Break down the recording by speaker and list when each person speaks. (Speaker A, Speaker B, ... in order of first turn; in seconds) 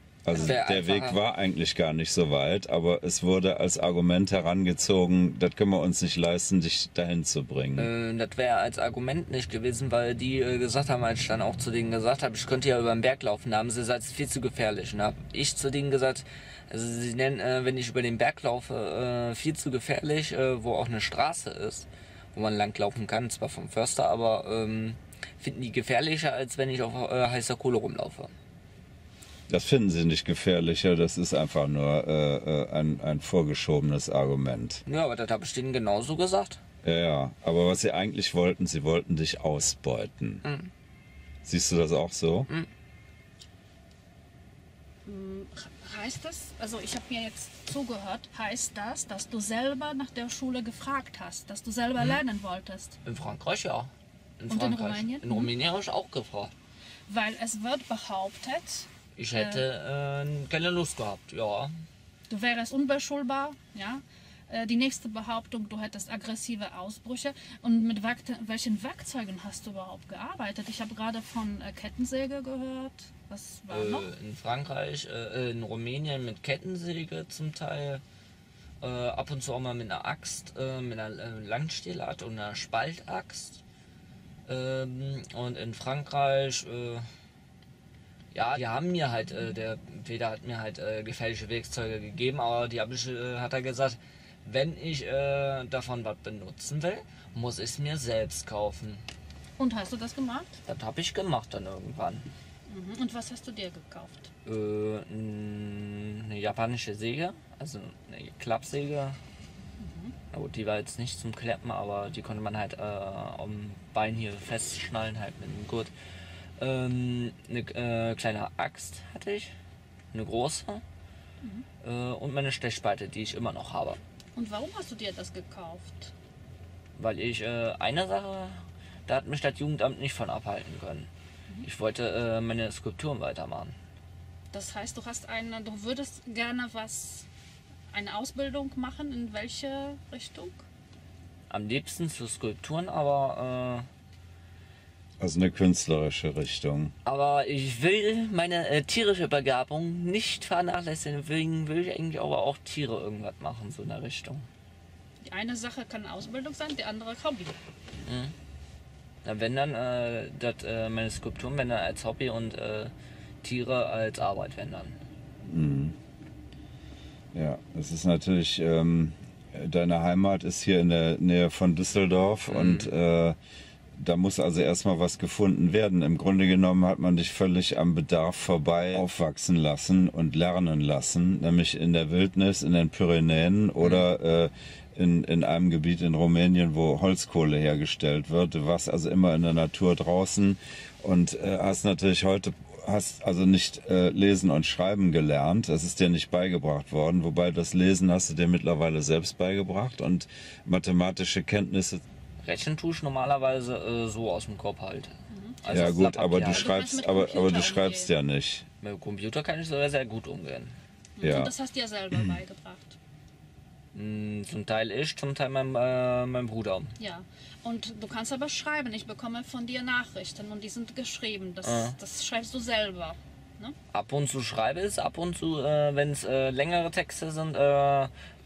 Speaker A: 0.2-7.9, 29.5-34.8, 36.8-40.4, 41.4-42.5, 145.2-146.9, 165.4-165.9, 167.3-173.4, 174.0-202.0, 205.7-208.7, 211.2-211.5
Speaker B: 0.3-1.2, 7.8-28.3, 34.9-36.6, 40.4-40.7, 53.0-56.5, 59.2-61.7, 73.7-78.0, 78.8-83.6, 84.5-87.1, 88.3-99.0, 100.7-102.3, 104.5-109.2, 110.3-115.9, 116.6-119.5, 120.1-120.8, 121.8-124.0, 127.0-131.1, 131.6-133.8, 141.5-143.9, 147.1-154.5, 158.1-158.3, 159.2-162.9, 163.4-165.0, 172.5-172.9, 202.4-206.8, 208.8-210.8, 213.9-216.9, 221.6-222.0, 223.9-228.1
Speaker C: 45.1-53.0, 54.5-55.5, 57.1-59.6, 62.3-74.1, 99.6-100.6, 102.7-104.3, 109.8-110.2, 124.4-126.1, 134.5-137.3, 137.9-140.7, 155.2-157.6, 205.3-208.1, 211.2-213.0, 217.0-223.8